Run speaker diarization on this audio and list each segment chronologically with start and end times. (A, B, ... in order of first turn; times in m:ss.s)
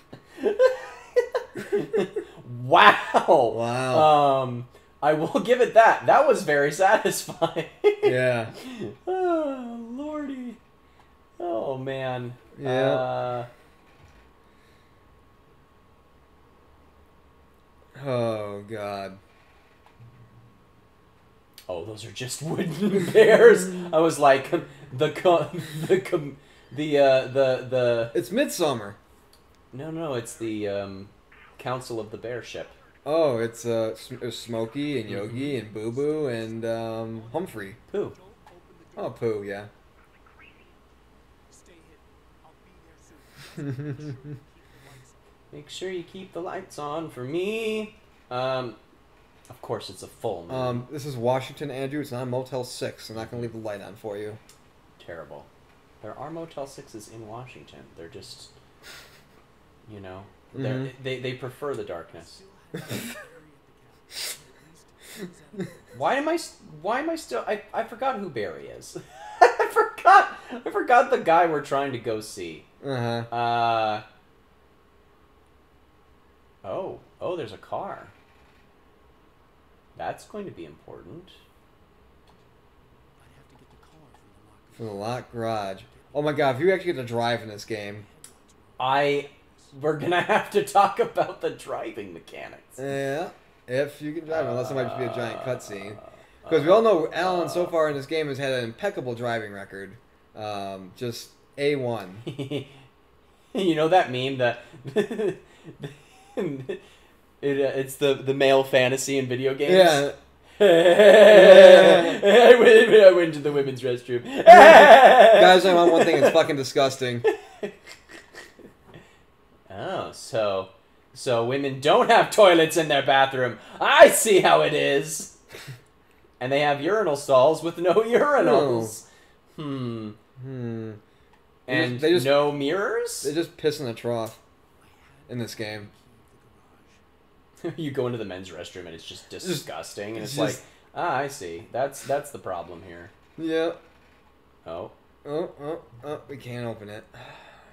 0:00.4-0:10.6 A
0:03.5-0:04.2 B
0:08.0-0:08.5 B
0:11.4-0:13.5 A
0:12.6-0:13.0 B
0:18.0-0:19.2 B
0:21.7-0:28.2 A
0:28.1-0:29.0 B
0:29.7-0:32.7 A
0:30.0-0:31.0 C
0:32.4-0:32.8 C
0:33.0-0:37.8 B
0:33.8-0:40.8 C
0:35.1-0:35.5 A
0:37.9-0:38.1 A
0:39.0-0:39.7 B
0:41.5-0:47.2 C
0:45.5-0:48.8 A
0:49.5-0:50.9 A
0:50.5-0:54.4 B
0:53.2-0:53.5 A
0:55.0-0:55.5 A
0:56.0-0:58.5 A
0:59.8-1:02.4 A
1:00.5-1:00.9 B
1:00.8-1:06.4 C
1:05.9-1:12.7 A
1:09.1-1:09.5 C
1:12.8-1:13.3 B
1:13.3-1:14.0 A
1:16.6-1:18.1 A
1:20.0-1:21.4 A
1:23.2-1:30.9 C
1:24.7-1:28.0 B
1:28.8-1:32.8 A
1:32.8-1:42.2 B
1:34.3-1:37.8 A
1:42.2-1:42.7 A
1:43.5-1:46.8 A
1:47.4-1:56.4 A
1:49.6-1:50.2 B
1:51.3-1:52.2 B
1:54.4-1:57.2 B
1:57.2-1:57.7 A
1:59.7-2:05.4 A
2:06.4-2:09.0 A
2:08.4-2:09.0 B
2:09.6-2:10.2 A
2:10.4-2:11.0 B
2:11.7-2:13.3 A
2:11.7-2:12.6 B
2:13.2-2:14.4 B
2:14.8-2:17.0 C
2:15.3-2:15.9 B
2:17.6-2:23.1 A
2:19.4-2:20.6 B
2:23.4-2:23.8 B
2:24.6-2:24.9 A
2:25.2-2:27.4 B